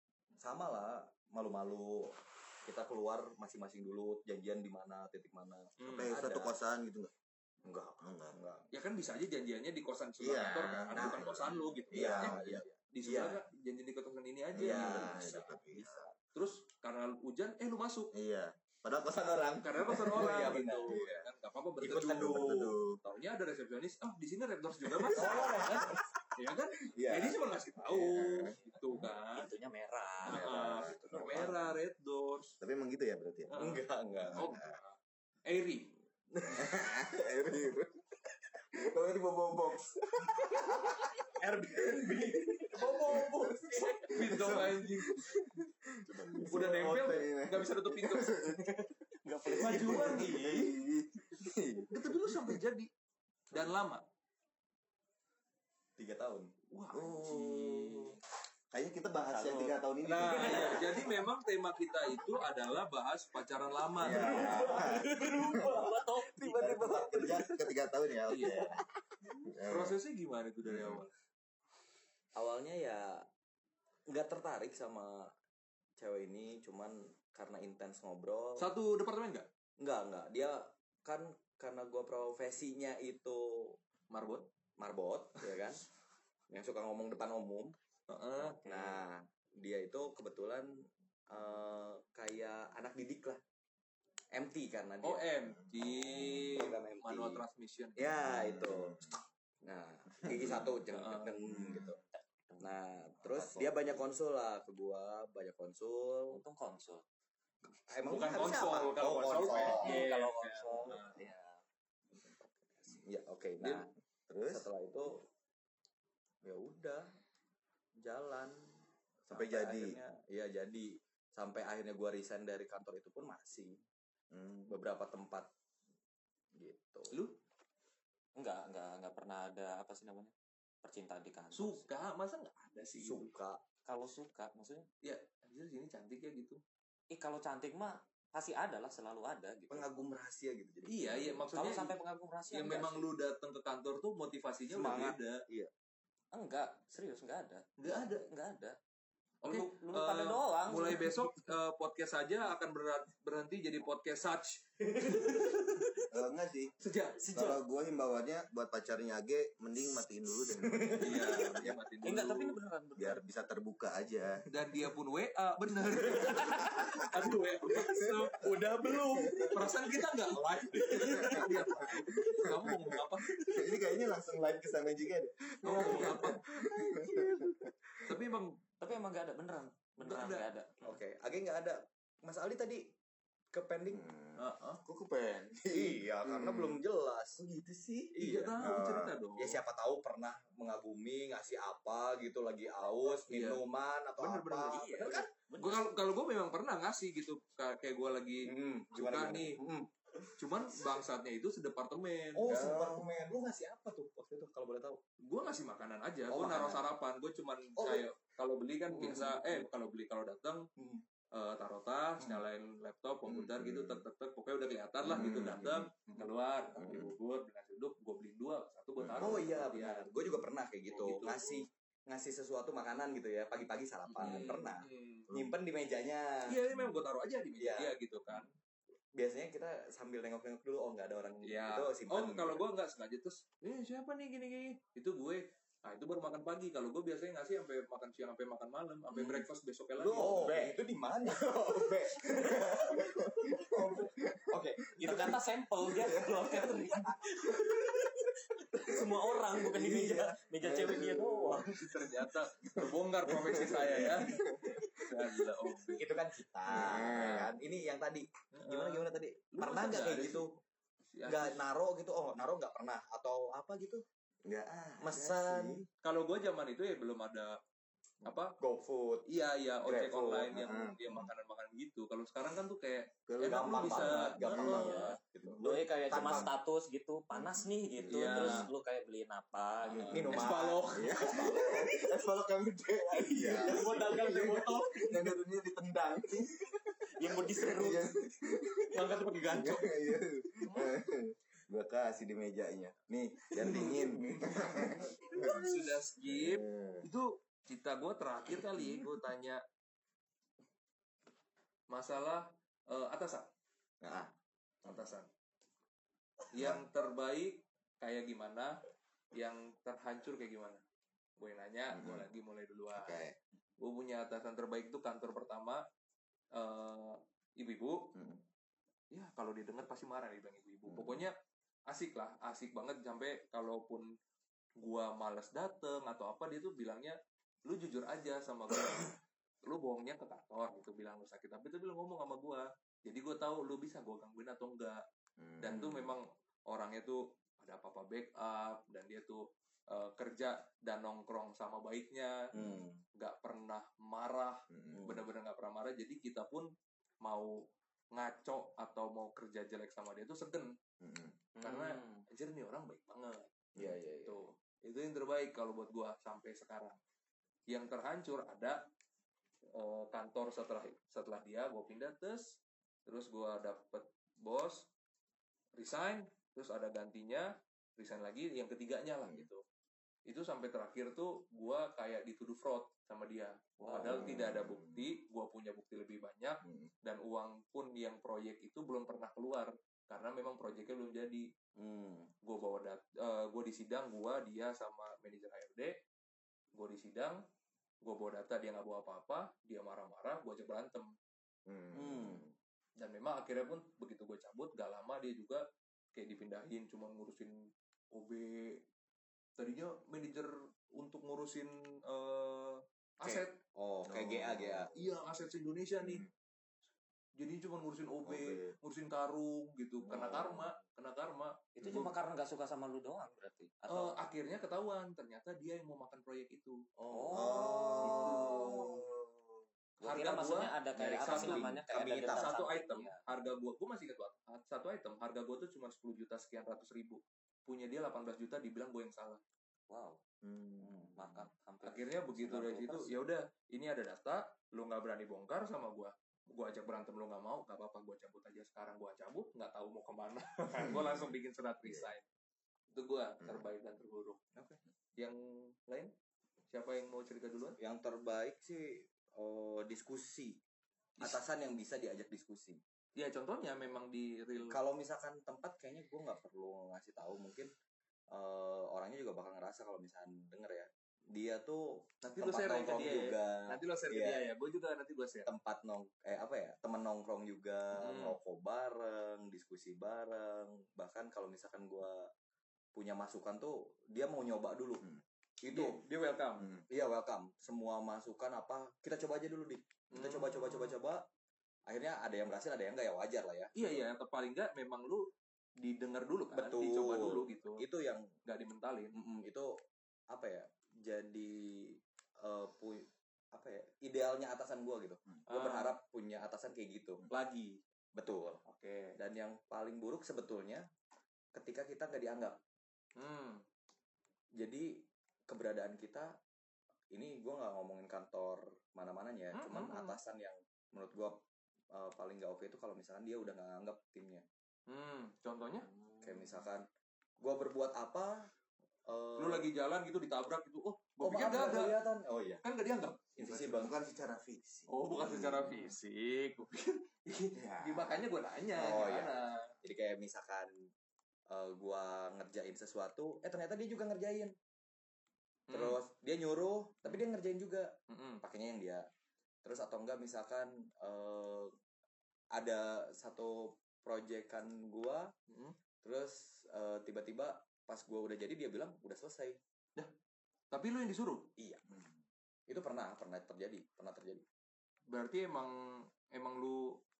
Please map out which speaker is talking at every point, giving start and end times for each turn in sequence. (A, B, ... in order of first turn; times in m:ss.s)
0:00.4-0:06.5 A
0:05.8-0:06.1 B
0:05.9-0:07.1 C
0:07.7-0:08.7 A
0:08.0-0:08.4 C
0:08.7-0:15.5 B
0:10.2-0:12.6 C
0:10.9-0:13.4 A
0:14.5-0:16.1 C
0:14.5-0:16.1 A
0:16.3-0:18.1 B
0:18.1-0:21.2 C
0:19.6-0:29.5 B
0:19.8-0:21.2 A
0:21.8-0:22.8 A
0:22.0-0:23.0 C
0:25.1-0:26.1 A
0:25.1-0:26.0 C
0:27.0-0:27.3 A
0:27.0-0:27.3 C
0:27.8-0:29.1 C
0:29.3-0:31.3 D
0:30.2-0:31.8 C
0:30.2-0:32.6 B
0:32.6-0:33.6 C
0:33.5-0:35.9 B
0:33.5-0:34.6 A
0:34.2-0:34.8 C
0:36.3-0:37.1 A
0:36.5-0:38.0 C
0:38.8-0:41.2 C
0:40.3-0:44.7 A
0:42.0-0:48.9 C
0:42.7-0:43.2 B
0:44.0-0:45.2 B
0:46.3-0:47.0 A
0:46.5-0:48.4 B
0:49.2-0:50.2 D
0:49.4-0:52.6 C
0:49.5-0:50.7 A
0:49.6-0:50.7 B
0:51.9-0:52.9 B
0:53.5-0:54.0 B
0:56.0-0:56.5 A
0:56.7-0:58.2 B
0:56.9-0:58.1 C
0:58.7-1:01.1 C
0:59.3-0:59.7 D
1:00.0-1:04.9 B
1:00.3-1:00.9 D
1:04.0-1:05.9 C
1:04.0-1:07.5 A
1:04.1-1:07.5 D
1:06.4-1:08.8 C
1:08.2-1:08.7 B
1:09.4-1:10.0 C
1:09.6-1:11.1 B
1:10.6-1:11.0 C
1:12.3-1:13.2 A
1:14.1-1:15.3 A
1:16.0-1:18.7 A
1:18.6-1:19.5 B
1:19.8-1:23.8 A
1:24.1-1:24.5 B
1:24.8-1:25.8 A
1:26.5-1:27.7 A
1:28.1-1:28.7 B
1:28.5-1:33.4 A
1:34.3-1:35.3 A
1:35.0-1:38.1 B
1:35.7-1:36.5 C
1:36.5-1:37.4 A
1:38.0-1:39.0 A
1:38.2-1:39.1 C
1:39.6-1:42.0 A
1:40.2-1:40.7 C
1:40.9-1:41.4 B
1:41.4-1:42.0 C
1:42.1-1:42.7 D
1:42.6-1:46.4 A
1:43.2-1:44.0 C
1:46.3-1:47.0 D
1:47.9-1:50.0 A
1:48.0-1:51.1 B
1:49.3-1:51.6 D
1:52.1-1:53.9 A
1:54.3-1:54.7 C
1:54.5-1:55.2 A
1:56.4-1:57.1 A
1:58.0-1:58.7 A
1:59.3-2:03.8 A
1:59.3-2:00.0 C
2:04.3-2:04.7 C
2:04.7-2:05.5 A
2:06.6-2:07.2 A
2:07.1-2:07.4 B
2:08.4-2:11.9 D
2:11.5-2:13.3 B
2:13.0-2:13.6 A
2:13.8-2:14.9 D
2:15.0-2:16.6 B
2:17.1-2:19.9 D
2:19.7-2:21.4 A
2:20.8-2:21.9 B
2:21.5-2:23.1 D
2:22.5-2:25.4 B
2:24.7-2:25.7 A
2:26.3-2:28.8 D
2:27.8-2:28.3 B
2:29.4-2:36.0 B
2:29.4-2:31.2 D
2:36.1-2:36.7 C
2:36.8-2:37.3 B
2:37.3-2:41.5 C
2:40.4-2:41.8 A
2:41.0-2:42.6 B
2:42.0-2:43.2 D
2:43.0-2:44.4 C
2:44.5-2:53.8 B
2:48.8-2:49.5 A
2:48.9-2:49.6 C
2:50.8-2:51.9 A
2:51.0-2:58.1 C
2:55.6-2:56.6 B
2:55.8-2:56.2 A
2:58.0-2:58.6 B
2:58.8-3:00.7 D
3:00.0-3:00.5 B
3:00.8-3:02.9 A
3:03.5-3:04.1 A
3:03.9-3:06.8 C
3:04.4-3:04.8 B
3:05.7-3:07.4 A
3:07.4-3:09.2 C
3:08.1-3:08.6 A
3:08.2-3:09.6 B
3:09.4-3:15.3 A
3:13.1-3:13.6 B
3:14.2-3:19.6 B
3:14.6-3:15.9 D
3:18.4-3:20.3 A
3:20.4-3:22.7 B
3:22.4-3:25.0 A
3:22.5-3:23.1 C
3:25.2-3:30.7 B
3:26.3-3:26.8 A
3:27.8-3:28.0 A
3:28.9-3:29.7 A
3:30.8-3:31.0 A
3:31.3-3:40.1 B
3:33.2-3:34.0 C
3:35.0-3:35.9 C
3:35.1-3:35.4 A
3:36.8-3:37.1 C
3:39.0-3:39.5 C
3:39.2-3:46.6 A
3:40.9-3:41.6 B
3:44.1-3:45.3 B
3:46.5-3:48.5 B
3:47.6-3:48.0 A
3:49.1-3:52.6 A
3:51.4-4:00.7 B
3:59.1-3:59.5 A
4:00.0-4:05.4 A
4:02.3-4:04.5 C
4:05.0-4:12.0 D
4:06.0-4:06.6 C
4:06.2-4:07.2 A
4:09.5-4:11.7 C
4:09.9-4:10.3 A
4:11.7-4:14.4 B
4:13.3-4:15.2 C
4:15.0-4:16.1 B
4:15.9-4:20.6 A
4:16.6-4:17.5 C
4:16.7-4:17.5 B
4:18.5-4:20.5 B
4:21.1-4:21.6 B
4:21.2-4:24.0 A
4:24.4-4:25.9 C
4:25.0-4:25.8 A
4:26.0-4:27.6 B
4:28.2-4:28.6 B
4:28.6-4:29.3 A
4:29.3-4:35.2 B
4:29.8-4:30.6 A
4:30.5-4:31.3 C
4:33.3-4:35.6 C
4:33.4-4:36.5 A
4:34.6-4:40.5 D
4:36.1-4:36.5 C
4:37.3-4:38.6 C
4:38.1-4:38.7 B
4:39.9-4:57.1 C
4:40.0-4:41.9 B
4:40.1-4:42.1 A
4:43.2-4:45.2 A
4:43.8-4:44.7 D
4:47.1-4:48.1 D
4:48.9-4:49.9 A
4:50.6-4:51.0 B
4:53.6-4:59.6 B
4:53.6-4:53.9 A
4:58.7-4:59.1 C
5:01.9-5:03.5 B
5:04.0-5:04.3 C
5:04.8-5:05.3 B
5:04.8-5:05.1 C
5:06.5-5:08.8 B
5:06.5-5:06.8 C
5:09.3-5:10.8 B
5:11.4-5:13.2 B
5:11.9-5:12.3 C
5:12.9-5:13.4 C
5:13.8-5:15.8 B
5:16.5-5:18.1 B
5:18.1-5:18.4 C
5:19.1-5:21.3 B
5:20.9-5:21.2 C
5:21.9-5:24.1 B
5:24.8-5:35.0 B
5:35.4-5:36.2 C
5:35.6-5:42.5 B
5:42.5-5:42.8 C
5:42.5-5:43.0 A
5:43.2-5:47.6 B
5:44.7-5:45.2 C
5:44.9-5:45.2 A
5:48.1-5:50.8 B
5:51.0-5:51.4 C
5:51.6-5:52.2 D
5:51.6-5:53.5 B
5:53.8-5:54.5 A
5:54.2-5:57.0 B
5:57.7-5:58.9 B
5:59.7-6:04.9 B
6:05.8-6:09.6 B
6:10.3-6:21.5 B
6:13.8-6:14.4 A
6:14.0-6:15.1 C
6:16.6-6:16.9 C
6:21.8-6:22.3 A
6:22.4-6:26.0 B
6:26.7-6:27.4 B
6:28.0-6:31.1 B
6:31.7-6:32.5 C
6:31.9-6:32.4 A
6:33.0-6:35.6 B
6:36.1-6:38.8 B
6:39.6-6:43.6 B
6:43.2-6:44.9 A
6:44.0-6:44.9 C
6:44.9-6:46.2 B
6:46.0-6:46.3 C
6:47.4-6:52.0 B
6:48.2-6:48.8 C
6:50.1-6:50.6 C
6:51.8-6:54.3 D
6:51.8-6:52.1 C
6:53.9-6:56.8 B
6:57.0-6:58.8 A
6:57.1-6:58.6 D
6:57.3-6:59.6 C
6:58.0-6:59.0 B
7:00.0-7:03.2 D
7:00.0-7:09.4 B
7:01.0-7:02.6 A
7:09.9-7:10.2 D
7:10.4-7:11.5 C
7:11.1-7:13.2 D
7:11.8-7:22.2 B
7:20.8-7:21.3 C
7:22.9-7:24.4 B
7:23.4-7:23.7 C
7:24.5-7:24.8 A
7:25.2-7:26.1 B
7:26.7-7:27.8 B
7:27.8-7:30.6 A
7:31.2-7:32.8 A
7:33.2-7:34.8 B
7:34.6-7:37.7 A
7:38.3-7:44.5 A
7:42.2-7:45.5 B
7:45.4-7:52.3 A
7:47.9-7:48.4 B
7:52.9-7:55.0 A
7:55.6-7:56.0 A
7:55.7-7:56.7 B
7:56.6-7:56.8 C
7:56.9-8:01.2 A
8:00.1-8:01.0 B
8:01.9-8:04.0 A
8:03.7-8:07.8 B
8:06.5-8:08.3 A
8:08.4-8:09.2 B
8:09.1-8:09.8 A
8:10.3-8:17.2 A
8:15.5-8:16.0 B
8:17.3-8:17.8 B
8:18.1-8:18.6 A
8:18.6-8:19.2 B
8:19.2-8:20.9 A
8:21.5-8:22.6 A
8:23.2-8:23.6 B
8:24.6-8:26.4 A
8:27.1-8:34.4 A
8:29.5-8:30.2 B
8:34.9-8:35.9 B
8:36.2-8:36.9 A
8:37.4-8:38.5 A
8:39.1-8:39.7 A
8:39.4-8:42.1 B
8:41.2-8:42.6 A
8:42.6-8:43.6 B
8:43.4-8:43.9 A
8:43.5-8:45.6 C
8:44.9-8:49.7 B
8:45.2-8:45.5 A
8:47.5-8:48.2 C
8:48.7-8:50.9 A
8:51.5-8:54.6 A
8:55.7-8:56.0 B
8:55.7-8:59.1 A
8:58.1-8:58.4 B
8:59.6-9:01.7 A
9:02.5-9:05.3 A
9:05.5-9:05.8 B
9:06.0-9:09.6 A
9:10.7-9:11.5 B
9:11.6-9:11.9 A
9:12.7-9:14.4 A
9:15.1-9:17.0 B